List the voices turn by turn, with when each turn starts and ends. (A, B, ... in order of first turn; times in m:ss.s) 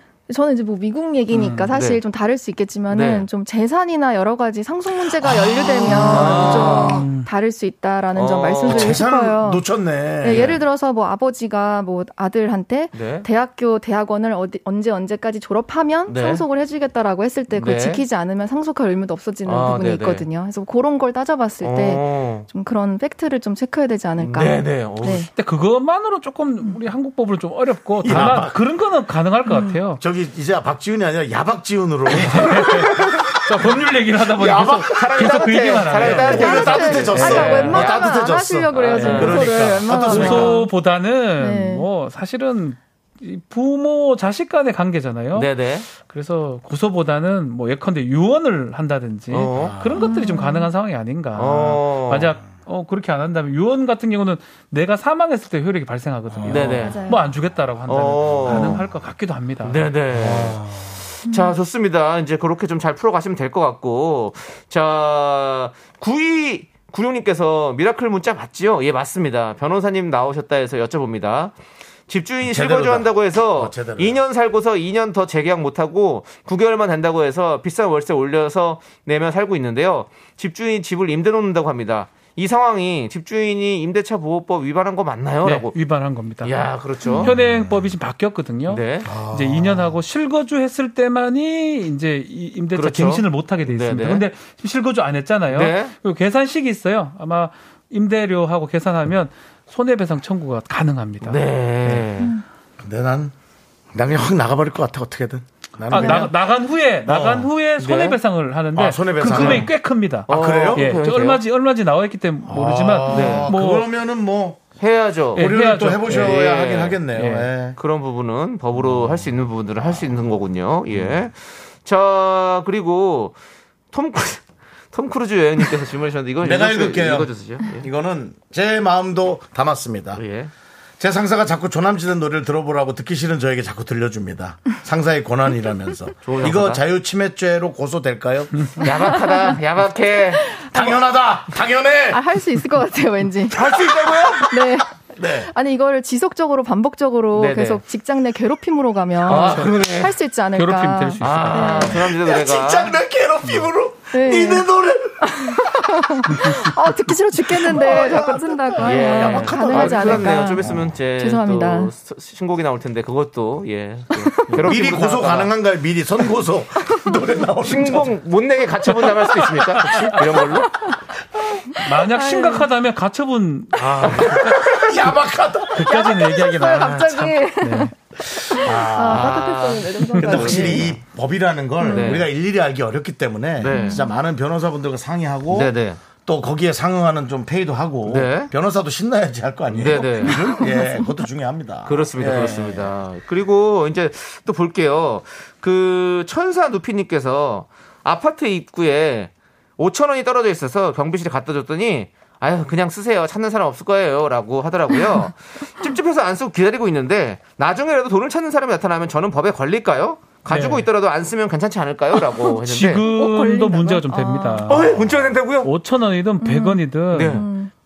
0:00.3-0:09.7 A
0:01.3-0:01.7 B
0:01.7-0:02.0 C
0:02.9-0:03.2 C
0:05.2-0:06.3 D
0:05.8-0:07.3 B
0:05.9-0:07.0 C
0:08.1-0:09.0 C
0:08.6-0:10.6 D
0:10.2-0:25.3 A
0:10.3-0:10.6 C
0:12.9-0:13.3 C
0:16.1-0:16.4 C
0:17.5-0:18.0 C
0:19.4-0:20.2 C
0:21.6-0:22.5 C
0:24.2-0:25.3 C
0:25.3-0:30.0 B
0:28.0-0:28.6 D
0:29.4-0:29.8 A
0:30.0-0:33.0 D
0:32.1-0:37.9 B
0:32.2-0:32.8 C
0:33.3-0:38.0 C
0:34.5-0:34.9 D
0:36.0-0:40.6 D
0:36.1-0:40.8 A
0:38.7-0:39.5 C
0:38.9-0:59.9 B
0:40.1-0:40.5 C
0:41.4-0:41.8 A
0:45.3-0:45.9 C
0:49.3-0:49.8 C
0:49.6-0:50.0 D
0:49.9-0:50.7 A
0:51.4-0:52.3 C
0:56.3-0:56.7 D
0:56.5-0:57.0 C
0:56.7-0:57.3 A
0:57.9-0:58.8 C
0:58.5-0:58.9 D
0:59.6-1:00.6 C
1:00.1-1:01.0 D
1:01.2-1:11.5 C
1:01.2-1:01.5 A
1:12.1-1:25.7 C
1:12.4-1:14.2 D
1:25.4-1:42.1 B
1:26.4-1:27.3 C
1:27.0-1:27.3 A
1:27.2-1:27.9 D
1:28.7-1:29.1 C
1:29.0-1:30.0 D
1:32.7-1:34.2 C
1:35.5-1:35.9 C
1:41.2-1:42.4 C
1:42.8-1:43.3 D
1:43.9-1:46.3 D
1:45.9-1:53.9 B
1:45.9-1:46.3 A
1:47.0-1:47.5 D
1:47.8-1:48.2 C
1:48.7-1:49.7 D
1:49.3-1:49.7 C
1:50.3-1:51.4 C
1:50.3-1:50.8 D
1:52.4-1:54.6 D
1:53.1-1:53.5 C
1:54.8-1:55.5 C
1:55.4-1:56.4 B
1:55.4-1:57.8 D
1:56.0-1:57.0 C
1:57.1-1:57.5 B
1:57.8-2:03.4 C
1:58.8-1:59.2 D
1:59.8-2:00.0 D
2:03.9-2:07.9 C
2:06.4-2:10.2 D
2:10.1-2:10.5 C
2:11.0-2:18.6 D
2:16.2-2:16.8 C
2:18.8-2:20.5 C
2:18.9-2:19.6 A
2:20.5-2:21.0 A
2:20.7-2:22.2 D
2:22.1-2:23.8 A
2:23.5-2:24.5 C
2:24.0-2:24.3 D
2:24.3-2:32.1 A
2:25.1-2:25.5 D
2:27.3-2:27.8 C
2:29.2-2:30.1 C
2:29.3-2:29.8 B
2:30.5-2:32.0 B
2:31.2-2:33.0 C
2:32.1-2:36.4 D
2:34.1-2:34.7 A
2:35.2-2:41.9 A
2:36.4-2:36.7 B
2:37.5-2:40.9 D
2:38.8-2:45.5 C
2:44.5-2:48.1 D
2:47.6-2:50.7 C
2:49.9-2:50.2 B
2:51.5-2:52.7 A
2:51.8-2:54.5 B
2:53.8-2:56.1 D
2:53.9-2:54.5 C
2:55.7-2:57.9 B
2:55.8-3:00.9 A
2:58.5-2:59.4 D
2:59.1-3:00.9 C
3:00.1-3:00.7 B
3:00.2-3:05.7 D
3:01.8-3:02.2 A
3:01.8-3:02.3 C
3:03.6-3:04.0 C
3:03.7-3:04.1 A
3:05.5-3:06.0 C
3:06.2-3:12.9 D
3:08.0-3:08.5 C
3:09.7-3:10.4 C
3:10.2-3:11.2 A
3:11.8-3:33.0 C
3:30.5-3:30.9 B
3:32.5-3:35.0 B
3:32.9-3:34.7 A
3:34.7-3:35.7 C
3:35.6-3:37.4 B
3:36.4-3:37.7 A
3:37.1-3:37.4 C